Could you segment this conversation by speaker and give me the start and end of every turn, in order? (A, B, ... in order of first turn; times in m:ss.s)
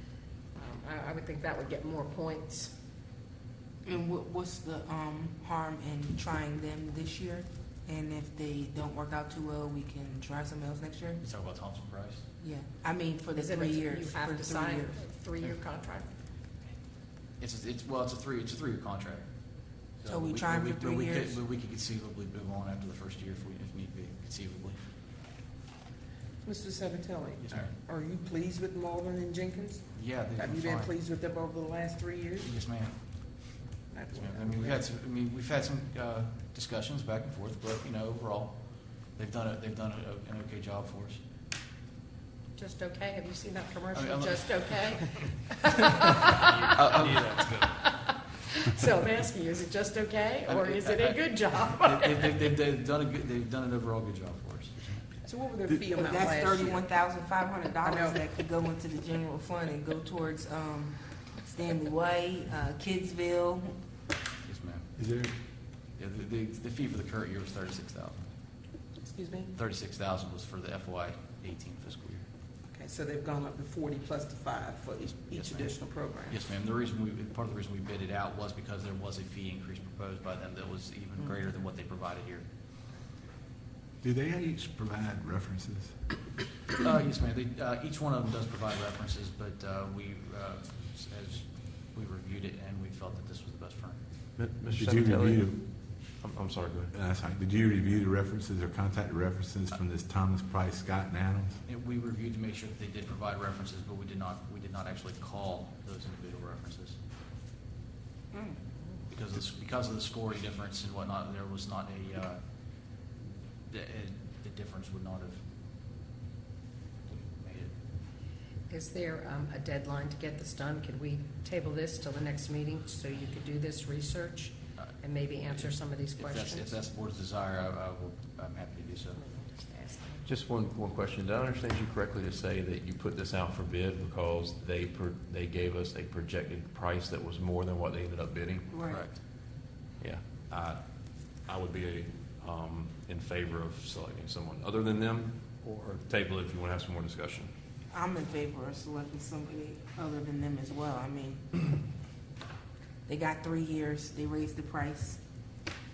0:00.5-0:02.7 A
0:03.8-0:11.2 B
0:11.2-0:12.2 C
0:12.4-0:14.8 B
0:13.3-0:16.1 A
0:17.4-0:24.8 C
0:20.1-0:21.4 B
0:26.4-0:32.5 D
0:27.3-0:27.8 C
0:29.9-0:30.9 C
0:32.4-0:41.2 C
0:33.9-0:34.8 D
0:42.6-0:46.7 A
0:43.9-0:45.0 C
0:46.5-0:47.8 E
0:46.8-0:47.4 C
0:47.6-0:52.3 A
0:50.5-0:51.2 C
0:51.8-0:55.1 C
0:55.2-0:58.2 D
0:56.0-1:03.8 B
1:04.4-1:04.9 C
1:05.0-1:05.3 F
1:06.0-1:08.3 C
1:09.0-1:09.5 D
1:09.5-1:12.2 C
1:12.6-1:16.4 D
1:15.3-1:22.5 C
1:24.0-1:25.9 F
1:26.8-1:34.0 C
1:34.4-1:35.5 E
1:34.8-1:35.6 F
1:36.1-1:36.9 E
1:36.9-1:41.6 F
1:41.6-1:47.0 C
1:49.1-1:53.1 C
1:53.7-1:55.4 C
1:57.0-1:57.7 C
1:58.7-2:06.8 A
2:05.5-2:09.2 C
2:09.2-2:10.3 A
2:10.2-2:18.6 E
2:18.7-2:19.1 B
2:18.9-2:19.2 C
2:20.0-2:20.8 E
2:21.4-2:27.5 E
2:27.9-2:31.4 B
2:33.1-2:35.2 B